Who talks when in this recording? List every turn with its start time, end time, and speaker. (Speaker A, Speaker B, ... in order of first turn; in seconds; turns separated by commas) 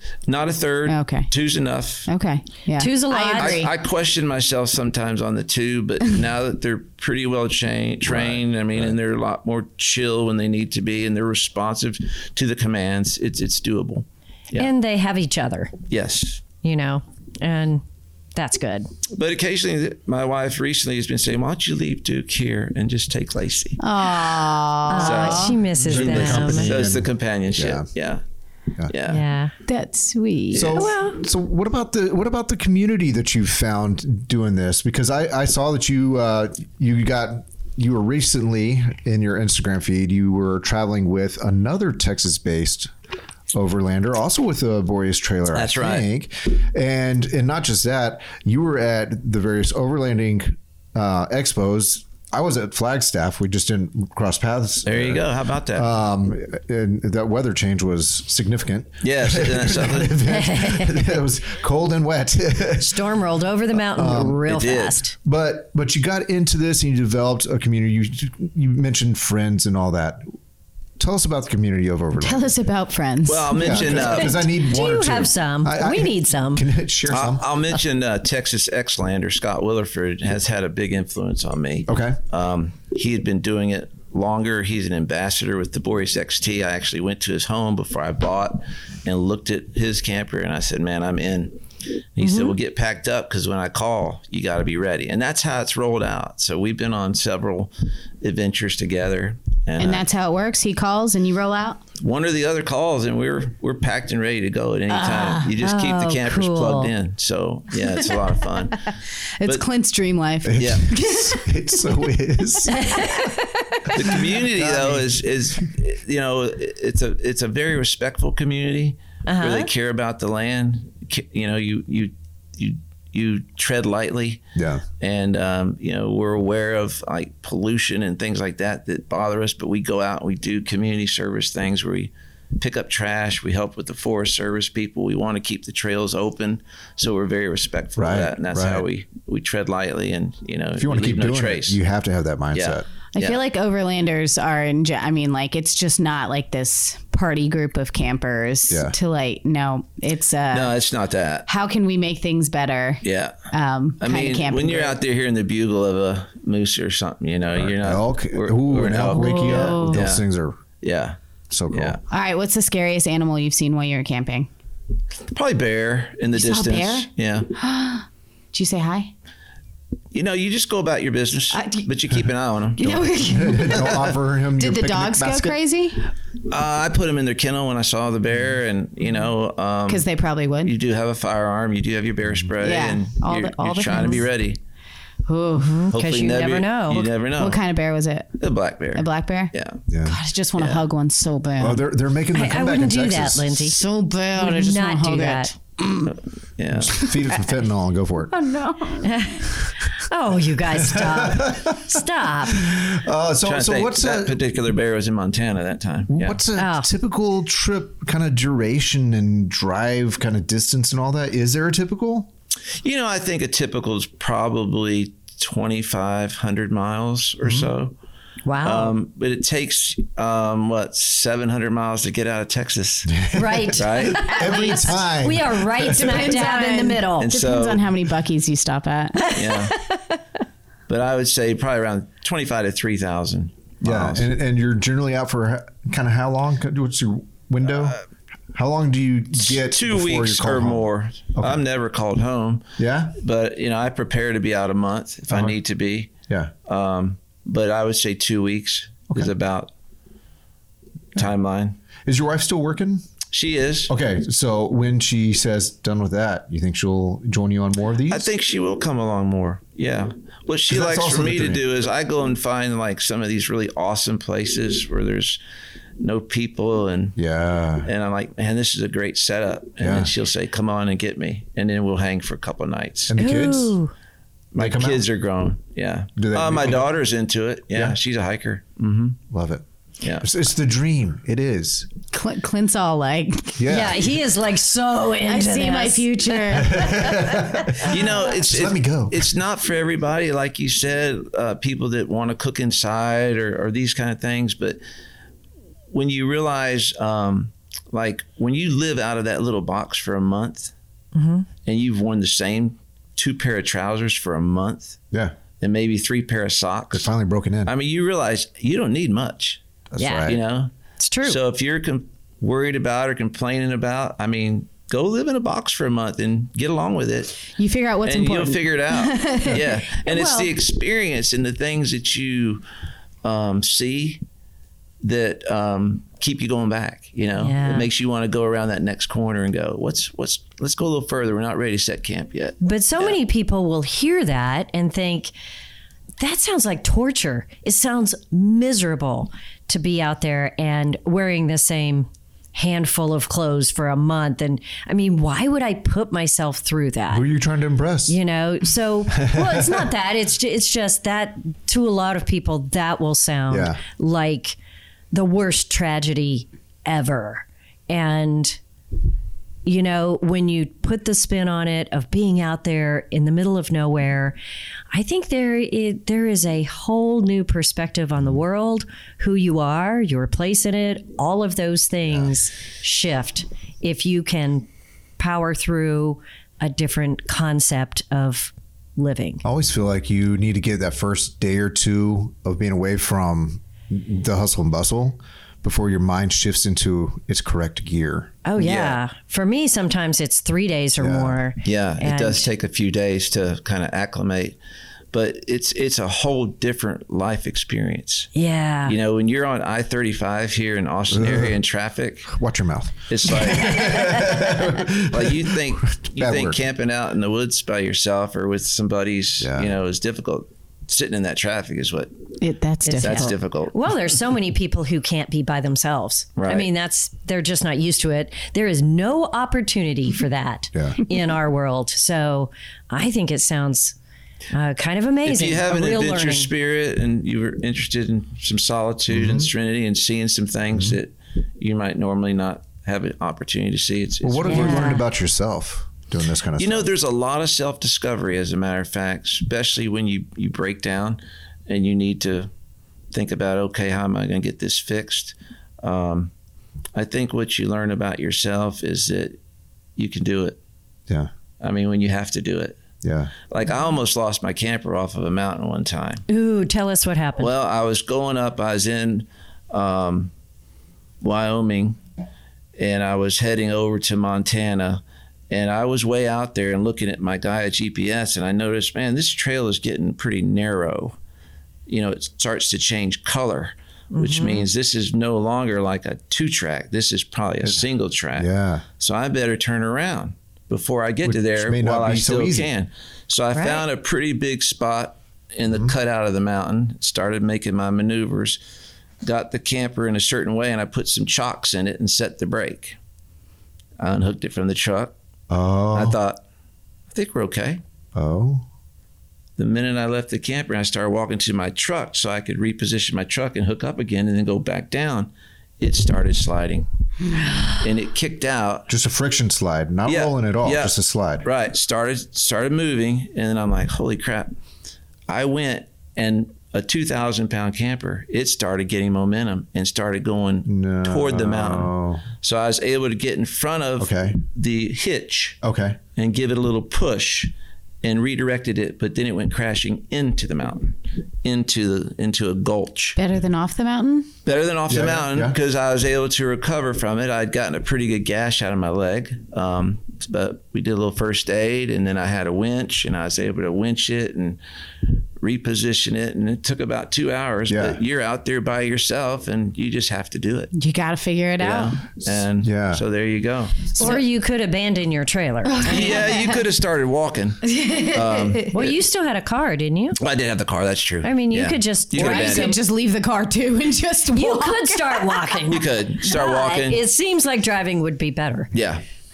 Speaker A: 0.3-2.1, Speaker B: 0.9-1.3, Speaker B: 2.1-3.7, Speaker C: 2.8-3.6, Speaker A: 3.3-14.7, Speaker D: 8.0-8.9, Speaker C: 14.6-15.8, Speaker A: 15.9-16.4, Speaker C: 16.6-17.8, Speaker C: 18.4-18.9, Speaker A: 19.1-24.3, Speaker B: 23.8-25.6, Speaker C: 24.9-26.7, Speaker A: 25.0-28.2, Speaker D: 25.8-27.9, Speaker A: 28.9-29.2, Speaker C: 29.1-29.5, Speaker B: 29.7-30.9, Speaker A: 30.5-30.8, Speaker D: 30.5-42.9, Speaker C: 30.8-31.2, Speaker D: 43.5-63.0, Speaker A: 45.5-46.1, Speaker A: 54.9-55.9, Speaker A: 59.0-60.2, Speaker C: 60.3-61.1, Speaker C: 62.8-65.1, Speaker D: 63.9-64.5, Speaker A: 64.5-65.0, Speaker D: 65.2-70.3, Speaker D: 71.0-72.6, Speaker B: 72.2-74.1, Speaker A: 73.3-74.4, Speaker D: 73.5-77.8, Speaker C: 74.0-76.7, Speaker A: 77.1-91.6, Speaker D: 81.9-82.2, Speaker A: 92.2-100.1, Speaker C: 92.2-92.5, Speaker B: 99.8-101.8, Speaker A: 102.0-108.9, Speaker B: 104.9-105.5, Speaker C: 105.6-106.9, Speaker B: 109.4-111.9, Speaker D: 110.5-112.9, Speaker A: 110.6-110.9, Speaker B: 112.7-114.0, Speaker A: 113.9-124.4, Speaker D: 114.0-115.2, Speaker C: 119.3-119.7, Speaker D: 124.6-124.8, Speaker A: 125.0-141.8, Speaker D: 138.0-138.9, Speaker D: 140.8-142.9, Speaker A: 142.5-143.4, Speaker B: 143.2-150.8, Speaker D: 148.7-148.9, Speaker A: 150.5-151.5, Speaker B: 151.5-155.0, Speaker A: 153.0-153.3, Speaker A: 154.0-160.2, Speaker D: 157.5-160.6, Speaker B: 159.1-160.0, Speaker A: 160.8-161.2, Speaker D: 161.5-162.0, Speaker A: 161.7-162.0, Speaker B: 162.1-164.5, Speaker A: 165.3-167.5, Speaker B: 166.3-169.1, Speaker A: 170.1-174.1, Speaker B: 171.5-171.9, Speaker B: 172.8-174.1, Speaker D: 173.2-175.6, Speaker B: 174.6-176.1, Speaker A: 176.5-180.1, Speaker B: 179.9-180.7, Speaker A: 180.6-184.6, Speaker B: 182.6-184.3, Speaker B: 185.3-185.9, Speaker C: 185.6-187.1, Speaker A: 185.9-187.6, Speaker B: 187.4-188.4, Speaker A: 188.4-189.8, Speaker B: 188.9-189.5, Speaker D: 189.9-190.2, Speaker B: 190.1-191.8, Speaker A: 190.6-190.8, Speaker D: 191.6-193.6, Speaker C: 192.3-193.8, Speaker B: 193.7-196.1, Speaker C: 194.4-195.5, Speaker A: 196.1-197.1, Speaker D: 196.8-198.3, Speaker B: 196.9-197.5, Speaker B: 198.3-199.4, Speaker C: 199.0-202.7, Speaker D: 200.7-204.4, Speaker A: 203.4-206.4, Speaker D: 206.1-212.3, Speaker C: 206.6-206.9, Speaker A: 212.8-217.9, Speaker D: 217.4-217.7, Speaker C: 218.5-218.9, Speaker A: 218.6-223.2, Speaker D: 223.1-226.3, Speaker C: 223.3-227.3, Speaker A: 223.7-224.3, Speaker B: 224.3-224.9, Speaker B: 225.9-229.3, Speaker A: 227.2-227.9, Speaker C: 229.2-230.2, Speaker A: 229.3-229.8, Speaker A: 230.9-234.3, Speaker D: 233.8-238.0, Speaker A: 237.7-238.0, Speaker D: 238.5-241.6, Speaker A: 239.4-242.7, Speaker D: 242.8-243.2, Speaker A: 243.2-246.1, Speaker D: 245.3-245.6, Speaker A: 246.7-249.7, Speaker A: 251.2-251.8, Speaker D: 252.1-253.1, Speaker A: 253.3-253.9, Speaker D: 253.9-258.3, Speaker A: 258.1-265.4, Speaker D: 260.7-261.6, Speaker A: 266.0-267.2, Speaker D: 267.2-267.9, Speaker A: 267.8-273.1, Speaker D: 269.8-270.1, Speaker D: 273.1-273.8, Speaker C: 273.2-273.9, Speaker A: 274.5-279.2, Speaker D: 274.6-275.1, Speaker D: 276.2-276.9, Speaker D: 277.7-278.0, Speaker D: 279.3-279.6, Speaker A: 280.0-280.3, Speaker D: 280.2-281.9, Speaker B: 282.1-283.7, Speaker D: 283.6-284.1, Speaker C: 283.7-287.8, Speaker B: 285.3-287.3, Speaker D: 286.5-289.3, Speaker A: 287.8-294.8, Speaker A: 295.9-300.7, Speaker C: 301.1-301.5, Speaker A: 301.7-305.0, Speaker A: 305.6-307.1, Speaker D: 306.9-307.7, Speaker A: 307.7-309.6, Speaker D: 309.9-310.4, Speaker C: 310.0-310.3, Speaker A: 310.2-310.7, Speaker C: 311.0-311.4, Speaker A: 311.2-317.5, Speaker B: 317.6-319.9, Speaker A: 318.0-322.6, Speaker C: 320.1-320.5, Speaker A: 323.2-324.2, Speaker A: 325.0-333.2, Speaker C: 327.4-327.9, Speaker C: 332.6-335.3, Speaker C: 336.2-347.3, Speaker D: 347.1-348.2, Speaker C: 348.1-354.6, Speaker D: 349.2-349.9, Speaker D: 353.5-353.8, Speaker C: 355.1-358.6, Speaker C: 359.6-364.4, Speaker C: 364.9-374.7, Speaker C: 375.2-379.4, Speaker D: 379.4-388.3, Speaker C: 388.4-392.5, Speaker A: 388.6-389.0, Speaker D: 391.0-391.4, Speaker A: 391.6-394.6, Speaker A: 395.1-398.3, Speaker C: 398.4-398.9, Speaker A: 398.9-402.3, Speaker D: 401.1-401.6, Speaker D: 402.3-406.6, Speaker A: 403.1-412.1, Speaker C: 403.8-404.2, Speaker D: 409.4-409.7, Speaker B: 412.4-413.4, Speaker C: 412.9-424.0, Speaker A: 413.0-413.8, Speaker A: 416.4-416.7, Speaker C: 424.5-426.5, Speaker A: 425.2-434.9, Speaker D: 429.1-429.5, Speaker D: 434.2-436.9, Speaker C: 434.4-435.1, Speaker A: 436.6-442.5, Speaker A: 443.1-446.3, Speaker A: 446.9-449.4, Speaker A: 450.0-450.6, Speaker A: 451.6-452.8, Speaker D: 453.0-453.3, Speaker A: 453.5-456.2, Speaker C: 456.3-457.5, Speaker A: 457.4-460.3, Speaker A: 461.2-462.0, Speaker A: 462.8-471.2, Speaker A: 471.9-488.6, Speaker C: 474.1-474.7, Speaker D: 478.4-478.9, Speaker D: 481.2-482.7, Speaker C: 483.6-483.8, Speaker A: 489.2-493.0, Speaker A: 494.0-495.1, Speaker D: 495.5-496.2, Speaker A: 495.9-496.4, Speaker A: 497.1-497.8, Speaker D: 498.1-498.6, Speaker A: 499.6-506.9, Speaker B: 507.4-507.6, Speaker A: 507.7-508.9, Speaker D: 508.9-511.5, Speaker A: 510.1-514.5, Speaker A: 515.3-525.6, Speaker D: 520.7-522.2, Speaker D: 524.0-524.4, Speaker D: 525.6-526.0, Speaker A: 526.1-527.5, Speaker A: 528.0-533.2, Speaker B: 533.2-534.3, Speaker A: 534.5-544.6, Speaker D: 534.9-535.6, Speaker A: 545.4-550.7, Speaker D: 547.7-548.0, Speaker B: 550.7-552.0, Speaker A: 551.6-554.1, Speaker D: 552.3-553.0, Speaker C: 554.0-556.1, Speaker B: 555.6-556.6, Speaker A: 555.9-559.0, Speaker B: 557.7-558.8, Speaker C: 558.7-560.2, Speaker A: 560.2-562.8, Speaker C: 561.2-562.8, Speaker B: 562.1-565.6, Speaker C: 564.3-568.7, Speaker A: 565.7-567.0, Speaker A: 568.7-569.0